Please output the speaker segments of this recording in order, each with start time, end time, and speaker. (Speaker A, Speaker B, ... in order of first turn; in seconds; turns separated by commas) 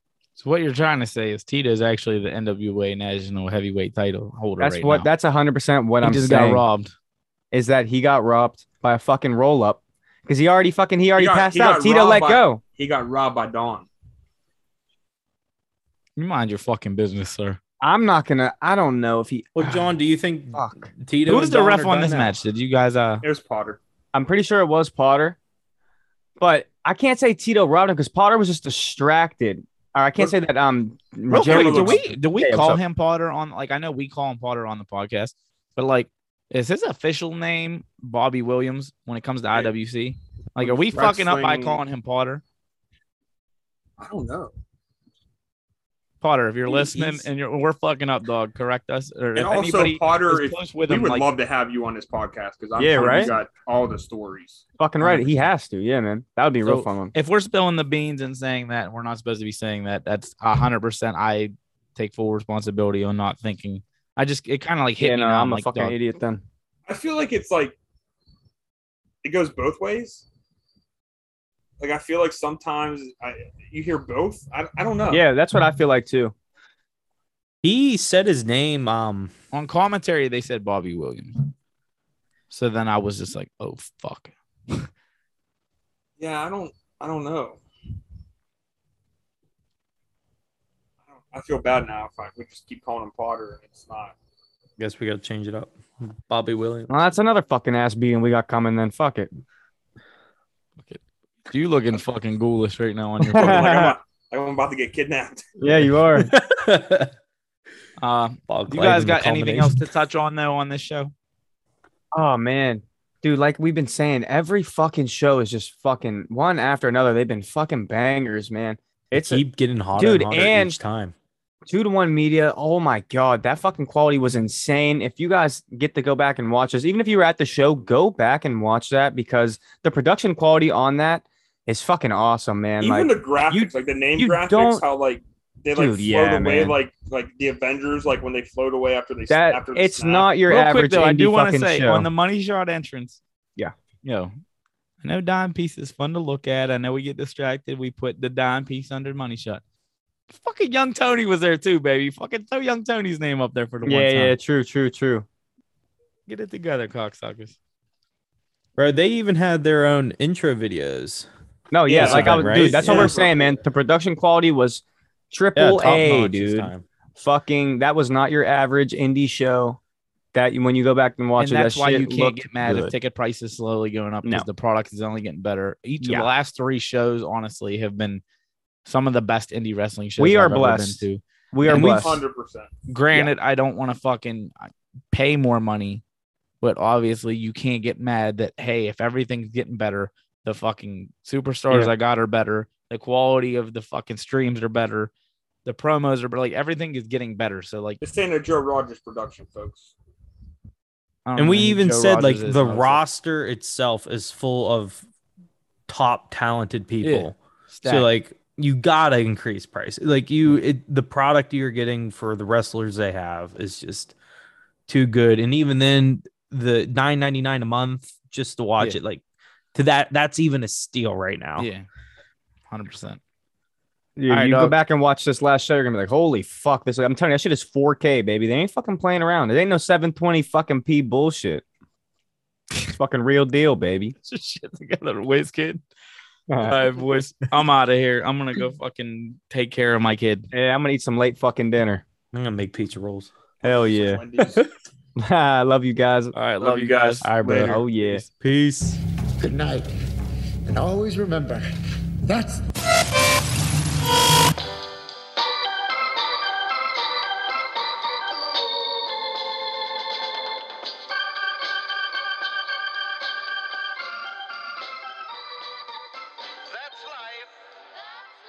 Speaker A: 0.4-5.1, Speaker B: 4.6-6.6, Speaker A: 6.0-6.9, Speaker B: 7.5-12.6, Speaker C: 11.2-13.9, Speaker A: 16.1-17.6, Speaker B: 17.8-19.9, Speaker D: 19.6-22.3, Speaker B: 20.5-20.9, Speaker A: 21.2-23.2, Speaker C: 23.2-23.8, Speaker B: 24.1-25.4, Speaker B: 26.4-32.8, Speaker A: 31.3-42.4, Speaker C: 31.3-32.1, Speaker C: 40.6-41.8, Speaker C: 44.0-44.5, Speaker A: 46.2-51.2, Speaker C: 46.6-47.2, Speaker C: 49.3-54.6, Speaker B: 52.8-53.3, Speaker A: 53.0-53.3, Speaker B: 54.8-57.1, Speaker A: 55.0-55.3, Speaker A: 56.6-65.9, Speaker B: 65.0-66.4, Speaker C: 66.9-67.8, Speaker C: 69.2-70.2, Speaker C: 71.8-75.2, Speaker B: 75.1-76.3, Speaker D: 77.6-79.3, Speaker A: 79.5-81.4, Speaker A: 82.5-84.9, Speaker C: 86.2-87.6, Speaker C: 91.2-94.1, Speaker D: 94.8-96.9, Speaker B: 96.9-99.3, Speaker A: 100.8-103.7, Speaker B: 103.3-104.0, Speaker C: 103.3-105.5, Speaker B: 105.6-106.3, Speaker D: 106.1-107.1, Speaker A: 108.0-111.1, Speaker D: 108.5-109.8, Speaker B: 112.1-119.4, Speaker D: 119.1-121.1, Speaker B: 120.0-120.8, Speaker B: 121.7-134.8, Speaker C: 132.8-140.3, Speaker B: 135.7-136.7, Speaker B: 139.3-142.1, Speaker A: 140.5-143.2, Speaker A: 144.0-144.3, Speaker A: 145.0-149.6, Speaker A: 150.3-154.3, Speaker B: 153.8-155.2, Speaker A: 156.3-157.6, Speaker D: 158.8-161.3, Speaker B: 161.7-169.8, Speaker C: 161.8-163.3, Speaker D: 161.9-163.4, Speaker D: 165.6-166.8, Speaker B: 170.3-172.9, Speaker A: 171.4-178.2, Speaker B: 176.0-176.3, Speaker A: 178.8-182.2, Speaker B: 180.2-182.2, Speaker C: 181.7-182.7, Speaker A: 182.9-186.0, Speaker A: 186.6-195.1, Speaker A: 195.7-198.0, Speaker C: 198.0-199.9, Speaker A: 201.2-203.0, Speaker D: 201.4-205.0, Speaker D: 205.9-214.1, Speaker A: 207.0-208.1, Speaker D: 214.9-219.2, Speaker D: 219.7-221.7, Speaker A: 221.6-221.9, Speaker A: 222.7-223.2, Speaker B: 224.2-231.6, Speaker A: 224.3-224.8, Speaker B: 232.8-234.1, Speaker A: 234.2-235.8, Speaker B: 236.5-236.9, Speaker A: 236.6-240.4, Speaker B: 240.5-242.0, Speaker D: 242.3-243.3, Speaker C: 243.6-244.7, Speaker B: 243.6-244.2, Speaker B: 245.2-246.3, Speaker A: 246.3-247.3, Speaker C: 246.6-247.8, Speaker D: 247.2-247.8, Speaker B: 247.6-248.2, Speaker D: 248.4-249.0, Speaker E: 249.4-249.9, Speaker E: 250.7-251.7, Speaker E: 252.2-252.6, Speaker E: 266.8-267.5